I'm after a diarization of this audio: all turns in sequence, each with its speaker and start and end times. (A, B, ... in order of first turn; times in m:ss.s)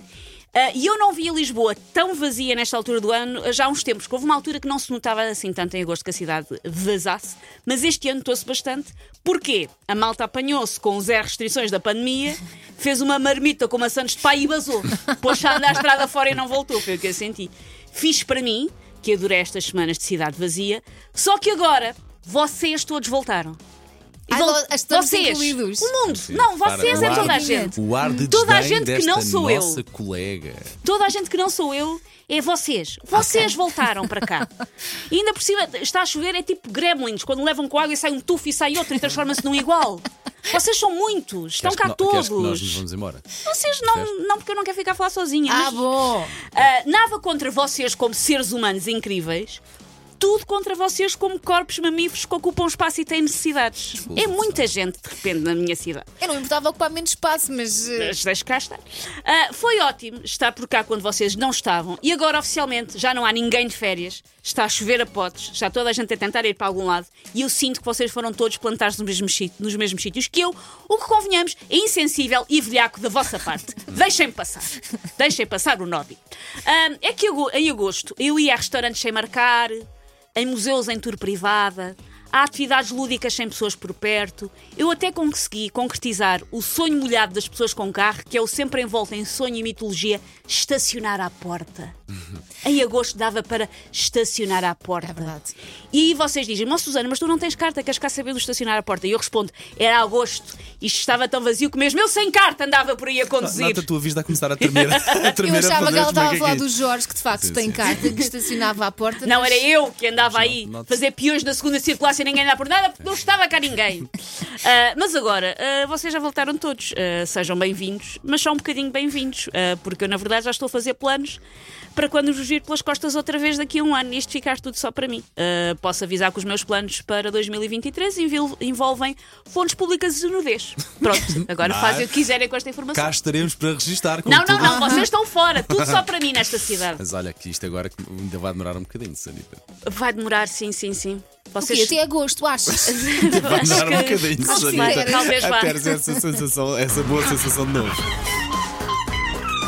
0:00.5-0:23.6 A
0:24.3-0:26.0 B
0:24.3-0:29.8 A
0:26.0-0:30.8 C
0:26.8-0:28.1 B
0:30.8-0:34.5 A
0:35.1-0:42.8 A
0:41.6-0:44.1 C
0:43.4-0:45.8 A
0:45.4-0:46.3 B
0:46.4-0:49.6 A
0:50.2-0:56.1 A
0:54.0-0:54.6 C
0:56.2-0:58.2 B
0:57.9-1:32.0 A
1:32.6-1:35.3 A
1:35.0-1:35.5 B
1:35.9-1:43.8 A
1:43.4-1:46.7 C
1:44.8-1:45.3 A
1:45.4-1:49.6 B
1:47.4-1:48.1 C
1:49.2-2:01.4 A
1:50.2-1:50.9 C
2:01.9-2:13.2 A
2:11.6-2:12.2 C
2:12.9-2:15.0 C
2:14.2-2:17.0 A
2:14.6-2:15.0 B
2:15.5-2:16.0 C
2:16.9-2:19.6 C
2:19.8-2:22.0 A
2:21.6-2:23.1 B
2:22.8-2:28.0 C
2:22.9-2:25.8 A
2:24.4-2:25.4 B